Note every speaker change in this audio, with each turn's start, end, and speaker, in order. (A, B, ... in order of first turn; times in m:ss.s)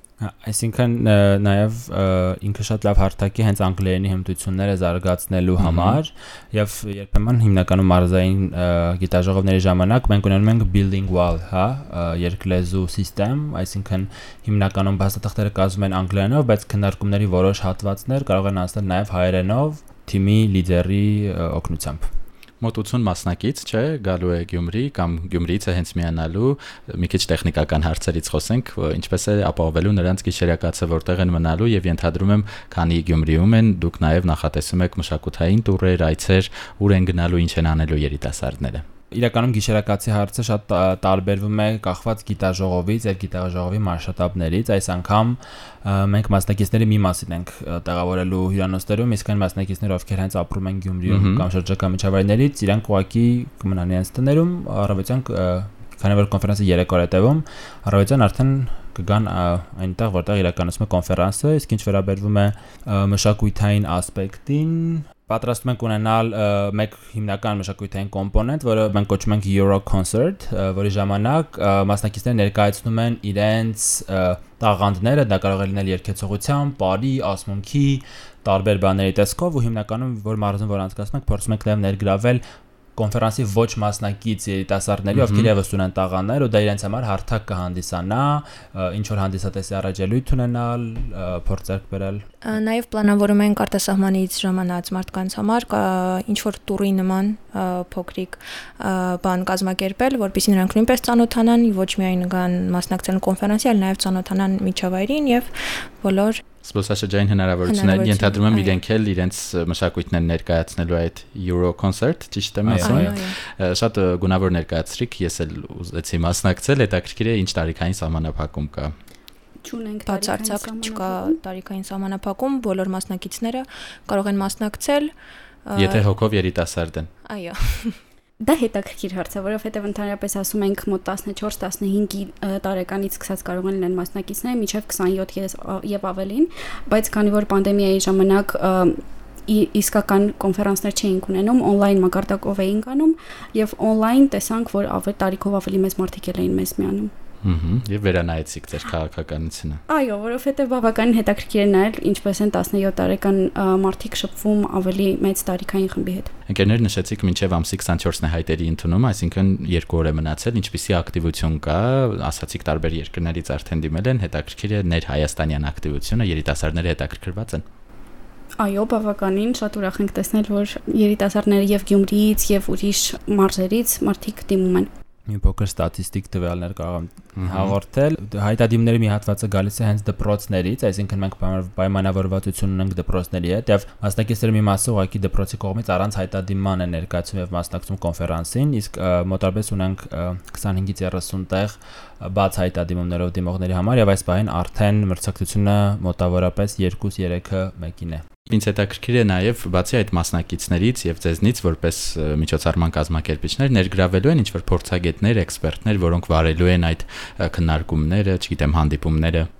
0:00.2-0:22.1 A
0:05.6-0:06.0 B
0:22.6-0:38.8 B
0:39.1-1:22.4 A
0:51.0-0:51.4 B
1:23.0-1:32.3 A
1:25.1-1:25.5 B
1:32.4-1:46.4 C
1:46.6-1:58.9 B
1:47.6-1:48.8 C
1:52.6-1:53.1 A
1:52.8-1:53.3 C
1:59.6-2:01.4 D
2:00.1-2:05.1 C
2:05.6-2:06.0 C
2:05.8-2:07.1 B
2:07.3-2:08.0 C
2:08.4-2:27.1 D
2:27.4-2:29.8 B
2:29.9-2:36.3 D
2:36.5-2:47.6 B
2:48.6-2:54.9 D
2:55.3-3:18.2 A
2:57.4-2:57.7 B
3:18.5-3:29.5 B